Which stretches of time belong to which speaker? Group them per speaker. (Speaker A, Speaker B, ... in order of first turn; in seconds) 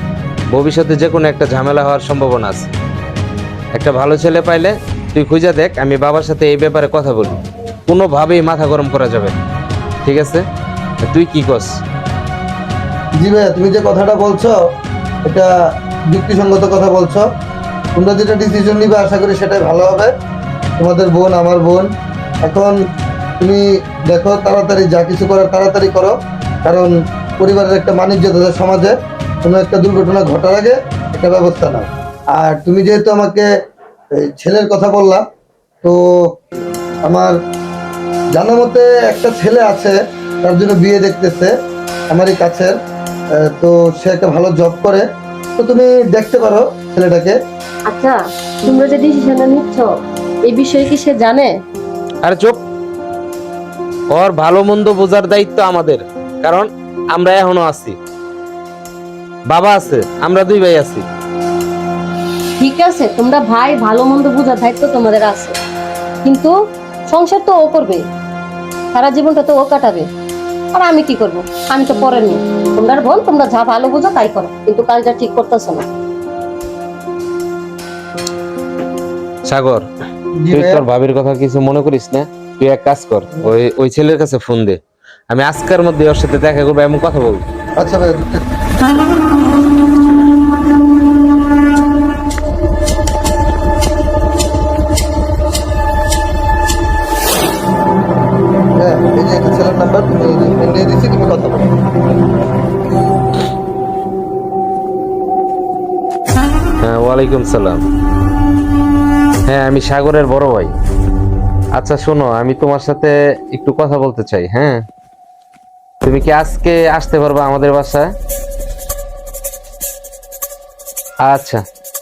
Speaker A: 0.5-2.7, 3.7-9.3, 10.1-10.5, 11.0-11.8, 52.2-52.6, 54.1-58.0, 59.5-61.0, 79.4-79.9, 80.5-87.4, 106.8-107.9, 109.5-110.7, 111.8-114.8, 116.0-118.1, 121.2-121.6
Speaker B: 13.2-14.6, 15.2-15.5, 16.1-17.2, 17.9-20.1, 20.8-21.9, 22.4-22.8, 23.4-33.5, 34.1-35.3, 35.8-36.4, 37.1-37.4, 38.4-41.5, 42.1-42.8, 43.4-45.1, 45.6-47.4, 80.4-80.8, 87.8-88.4, 98.8-101.7
Speaker C: 47.9-49.9, 50.5-51.5, 62.6-65.6, 66.2-66.5, 67.1-68.0, 68.9-70.1, 70.7-75.9